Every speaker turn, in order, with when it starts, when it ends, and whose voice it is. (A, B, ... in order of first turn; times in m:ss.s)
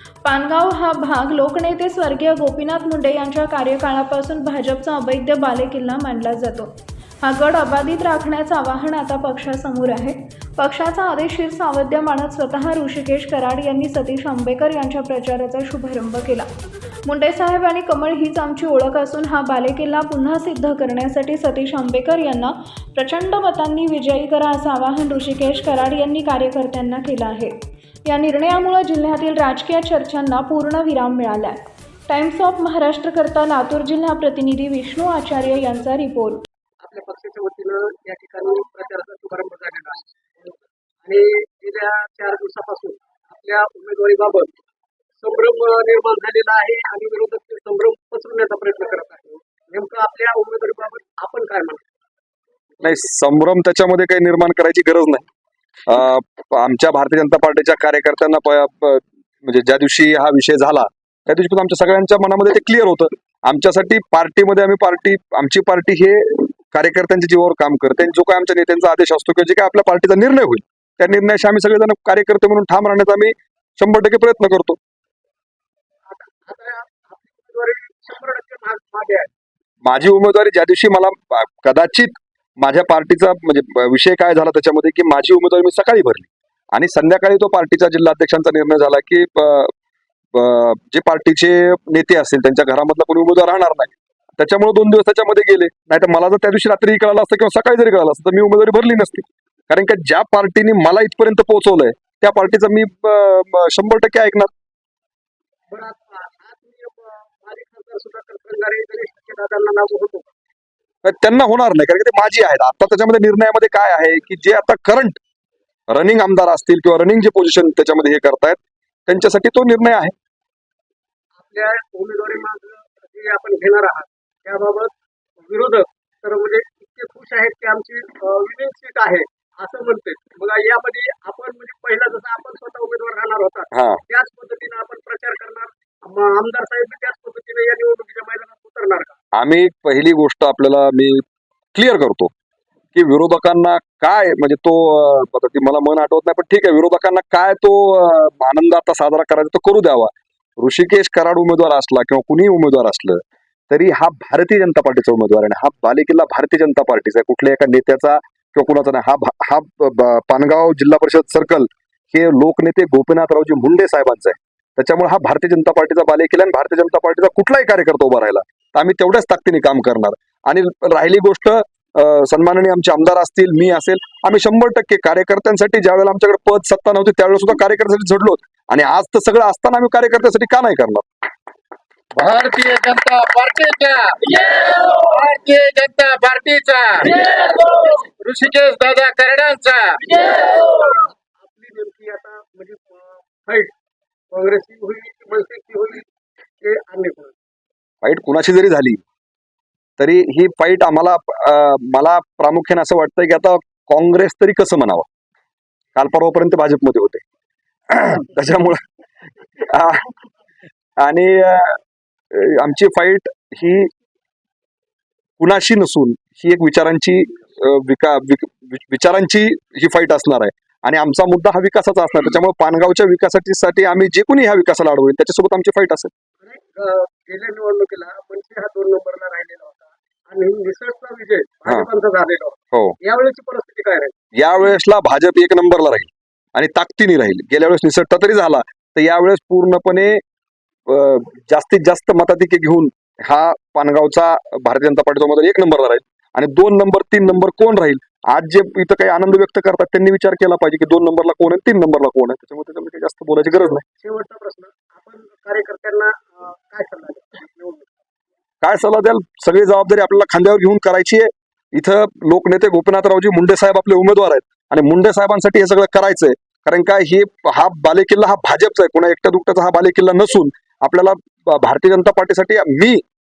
0:00.2-0:16.5 A
0:17.0-0:36.4 A
0:36.8-0:44.5 B
0:45.2-0:51.9 B
0:52.8-0:55.3 C
0:55.9-1:14.8 C
1:16.1-1:19.3 B
1:19.8-1:29.7 C
1:30.3-1:44.5 C
1:45.7-1:50.3 B
1:51.0-1:55.2 C
1:55.9-2:00.2 C
2:01.4-2:19.2 B
2:13.7-2:14.0 C
2:19.3-2:22.3 C
2:22.9-3:01.1 C
3:02.2-3:10.8 D
3:10.7-3:13.7 B
3:14.3-3:16.1 B
3:16.6-3:17.4 B
3:18.0-3:19.0 C
3:20.0-3:25.1 C
3:26.0-3:27.2 C
3:27.9-3:28.9 C
3:29.6-3:30.2 C
3:31.0-3:31.8 C
3:32.3-3:33.9 C
3:35.4-3:46.1 C
3:46.4-3:54.1 B
3:54.4-4:00.2 C
4:00.9-4:13.8 C
4:13.5-4:17.9 B
4:18.6-4:33.0 C